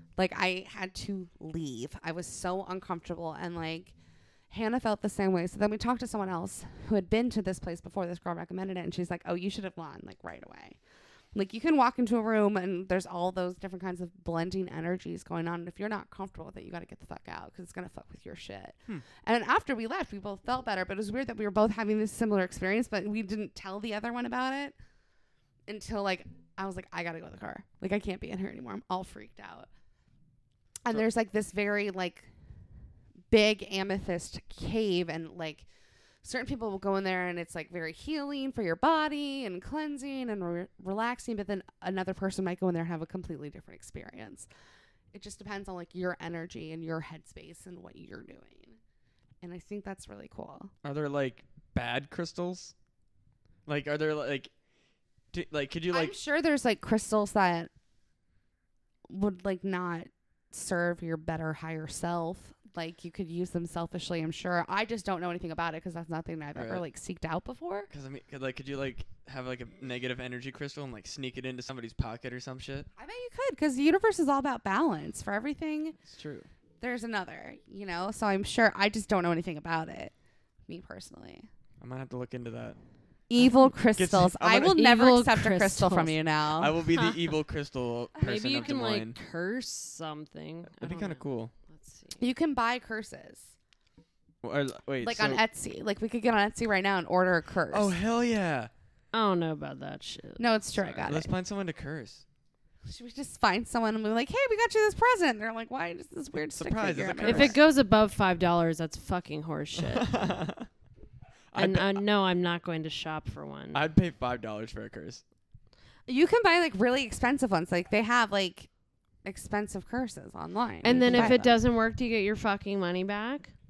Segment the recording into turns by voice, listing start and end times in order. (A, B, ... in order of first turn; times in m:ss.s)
0:00.2-0:03.9 A
0:04.5-0:10.8 A
0:11.3-0:24.7 A
0:25.7-0:29.7 A
0:30.8-0:32.3 A
0:33.3-0:35.7 A
0:36.2-0:44.5 A
0:45.1-0:48.8 A
0:49.4-0:50.7 A
0:50.8-0:52.7 B
0:53.7-0:54.5 B
0:55.3-0:56.1 B
0:55.9-0:57.7 A
0:59.1-1:07.9 A
1:06.5-1:06.8 B
1:07.9-1:12.9 B
1:13.0-1:16.0 A
1:16.1-1:16.5 B
1:16.8-1:20.1 A
1:20.7-1:21.5 A
1:21.8-1:22.8 B
1:23.3-1:26.7 A
1:23.9-1:24.8 B
1:24.6-1:26.2 C
1:26.6-1:29.2 B
1:28.2-1:32.2 C
1:30.7-1:31.5 B
1:32.2-1:33.5 A
1:34.4-1:35.4 B
1:35.0-1:37.9 A
1:37.7-1:38.7 B
1:39.1-1:40.4 C
1:40.4-1:41.3 A
1:40.8-1:42.2 B
1:42.8-1:47.6 A
1:46.5-1:47.6 B
1:47.2-1:50.1 C
1:49.8-1:50.7 B
1:51.5-1:52.0 B
1:51.5-1:53.8 C
1:53.7-1:55.2 B
1:56.1-1:58.7 A
1:59.2-2:01.6 A
2:00.8-2:03.5 C
2:01.1-2:01.4 B